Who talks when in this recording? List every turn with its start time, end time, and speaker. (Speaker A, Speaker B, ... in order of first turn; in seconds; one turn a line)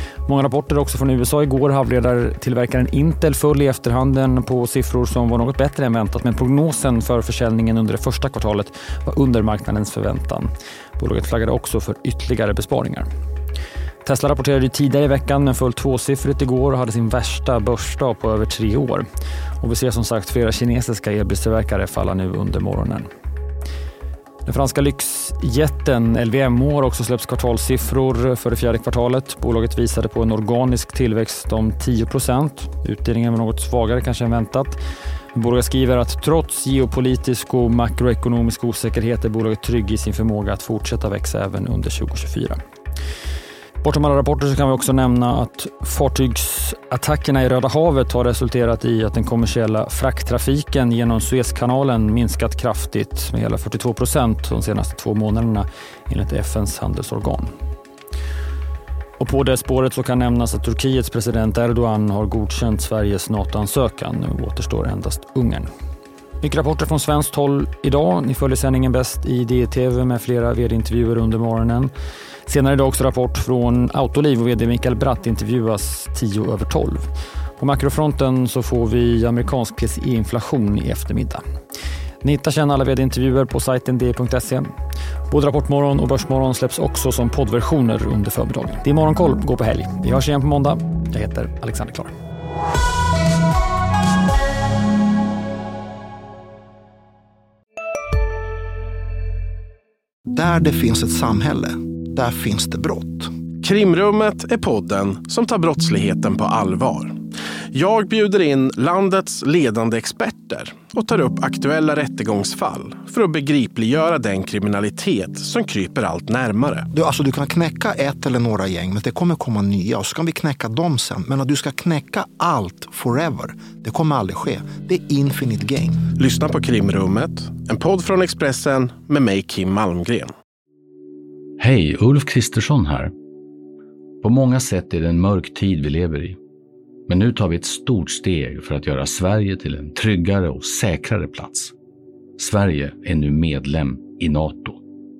Speaker A: 0.2-13.1
Speaker A: 14.0-19.1
Speaker A: 19.6-23.1
Speaker A: 24.4-34.8
Speaker A: 35.3-42.6
Speaker A: 43.8-57.5
Speaker A: 59.2-65.7
Speaker A: 66.4-71.9
Speaker A: 72.5-77.1
Speaker A: 77.6-81.4
Speaker A: 82.2-84.7
Speaker A: 85.3-92.1
Speaker B: 100.3-103.3
Speaker C: 103.6-107.2
Speaker C: 107.7-116.9
Speaker B: 116.9-126.0
Speaker C: 126.2-130.3
Speaker D: 131.6-133.1
Speaker D: 134.2-136.4
Speaker D: 137.1-141.7
Speaker D: 142.4-144.8